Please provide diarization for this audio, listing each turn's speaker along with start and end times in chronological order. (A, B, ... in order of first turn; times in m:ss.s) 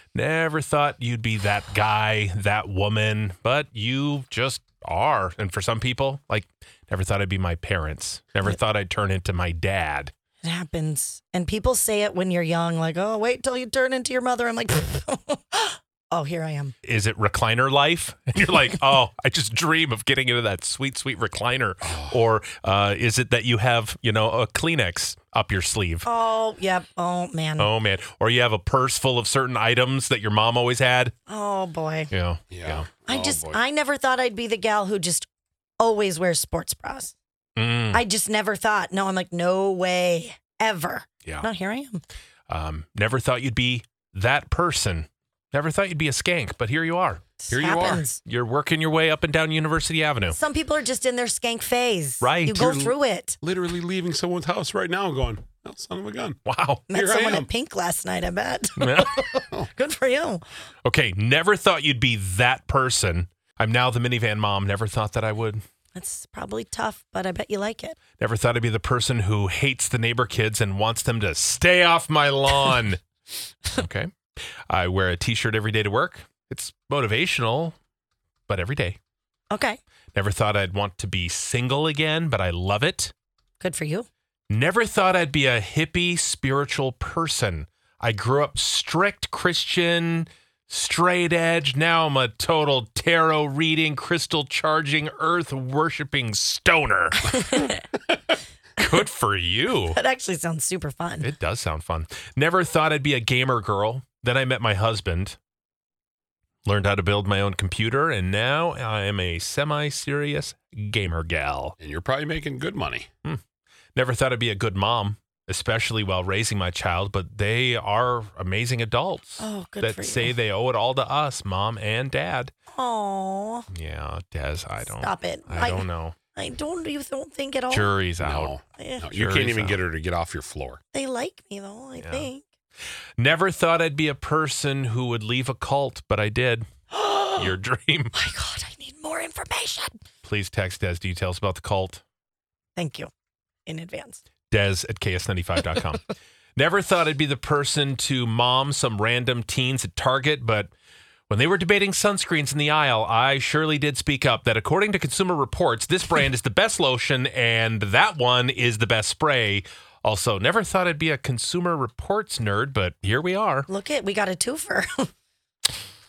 0:00.1-0:10.1 A
0:10.4-0:16.7 B
0:16.8-0:26.1 A
0:21.9-0:22.1 C
0:26.0-0:27.7 B
0:27.6-0:31.1 A
0:31.3-0:32.1 B
0:32.1-0:33.0 A
0:32.5-0:33.6 C
0:33.0-0:35.3 B
0:35.8-0:37.1 B
0:37.6-0:38.0 A
0:37.9-0:42.0 B
0:42.5-0:47.3 A
0:47.4-0:48.2 B
0:47.5-0:48.0 C
0:48.2-0:50.4 A
0:50.3-0:53.4 B
0:52.2-0:52.9 A
0:53.4-0:56.4 C
0:56.4-0:57.0 A
0:56.9-1:00.4 B
0:56.9-0:57.5 C
0:58.8-0:59.3 A
1:00.8-1:05.6 A
1:05.9-1:08.0 B
1:08.2-1:13.0 A
1:13.7-1:14.1 A
1:14.7-1:17.8 A
1:18.5-1:19.0 A
1:19.5-1:19.8 B
1:20.1-1:23.1 A
1:23.6-1:24.1 B
1:24.5-1:37.7 A
1:37.3-1:37.8 B
1:38.8-1:40.0 A
1:39.9-1:41.3 B
1:41.2-1:45.4 A
1:46.6-1:51.8 A
1:51.8-1:53.1 C
1:53.9-2:02.5 A
1:59.4-2:00.3 B
2:02.7-2:03.7 B
2:03.7-2:06.2 A
2:04.8-2:08.0 B
2:07.7-2:08.6 A
2:08.2-2:10.8 C
2:08.7-2:09.0 B
2:09.1-2:09.8 A
2:10.9-2:12.4 B
2:12.0-2:12.3 A
2:13.2-2:16.6 A
2:16.9-2:17.5 B
2:17.4-2:18.1 A
2:18.1-2:20.0 B
2:20.2-2:22.0 A
2:22.8-2:23.1 B
2:23.6-2:24.2 B
2:24.5-2:26.0 A
2:26.6-2:30.7 A
2:31.3-2:43.7 A
2:43.7-2:45.1 B